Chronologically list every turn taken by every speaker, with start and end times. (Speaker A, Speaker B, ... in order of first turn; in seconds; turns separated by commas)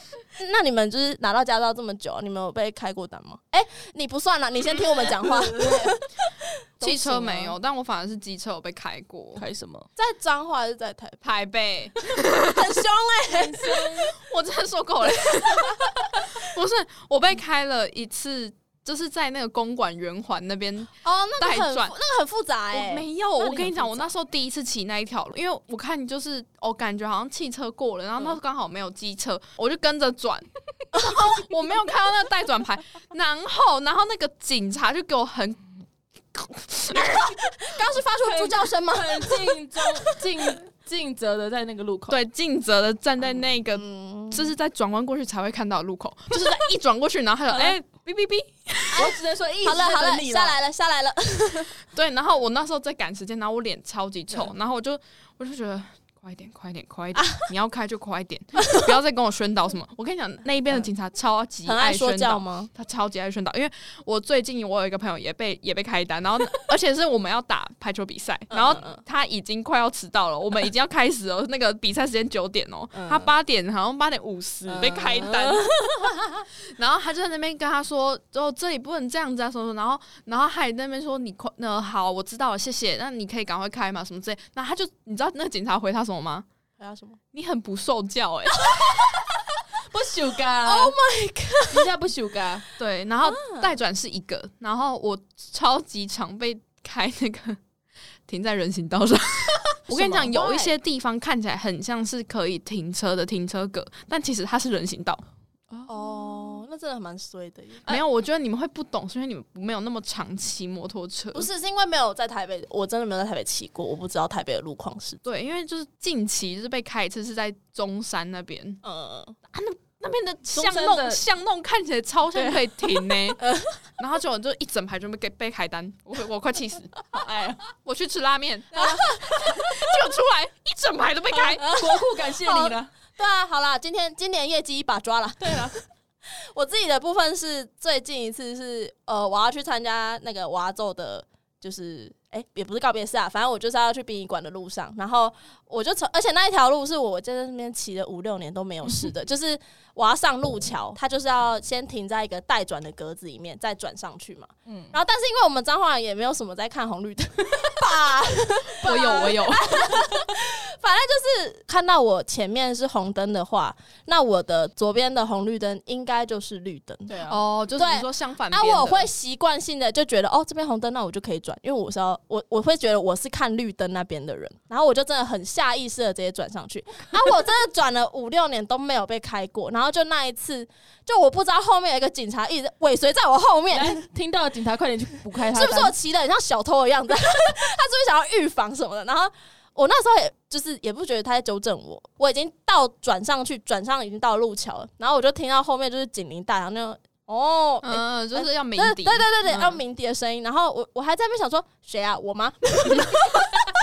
Speaker A: 0.4-7.5, Speaker B: 5.0-6.0, Speaker C: 6.8-9.4, Speaker B: 9.3-9.9, Speaker A: 9.9-11.2, Speaker C: 11.2-12.8, Speaker A: 12.4-13.8, Speaker B: 13.3-14.2, Speaker C: 14.2-21.9, Speaker A: 15.6-16.2, Speaker A: 21.0-24.1, Speaker C: 22.7-35.6, Speaker A: 30.9-31.3, Speaker C: 36.3-37.4, Speaker A: 37.5-39.8, Speaker B: 38.2-42.2, Speaker C: 42.1-49.1, Speaker A: 43.8-44.5, Speaker B: 47.5-47.8, Speaker A: 48.9-51.7, Speaker B: 48.9-50.6, Speaker C: 51.9-75.8, Speaker A: 57.2-57.5, Speaker A: 61.6-62.7, Speaker A: 68.5-69.0, Speaker A: 72.9-73.3, Speaker A: 74.7-76.4, Speaker C: 76.7-86.5, Speaker A: 86.8-87.2, Speaker C: 87.3-89.1, Speaker A: 88.6-89.4, Speaker B: 89.8-90.9, Speaker A: 90.6-91.9, Speaker B: 91.7-92.7, Speaker C: 92.8-97.6, Speaker A: 93.2-93.8, Speaker C: 98.3-105.2, Speaker B: 99.9-100.3, Speaker A: 100.0-100.7, Speaker B: 105.7-106.6, Speaker A: 105.9-107.9, Speaker C: 107.8-111.5, Speaker A: 111.3-115.2, Speaker C: 115.2-118.8, Speaker A: 118.8-119.4, Speaker C: 119.5-126.9, Speaker B: 120.5-121.2, Speaker B: 122.3-123.1, Speaker A: 123.4-123.8, Speaker B: 127.1-127.7, Speaker C: 127.8-131.7, Speaker A: 128.7-129.9, Speaker B: 131.3-132.9, Speaker A: 131.5-135.8, Speaker B: 135.4-135.7, Speaker A: 136.3-184.1, Speaker B: 154.7-154.9, Speaker C: 158.8-159.8, Speaker B: 167.1-167.4, Speaker C: 167.2-169.1, Speaker B: 183.7-185.9, Speaker A: 185.5-203.7, Speaker C: 197.8-199.3, Speaker B: 199.5-199.8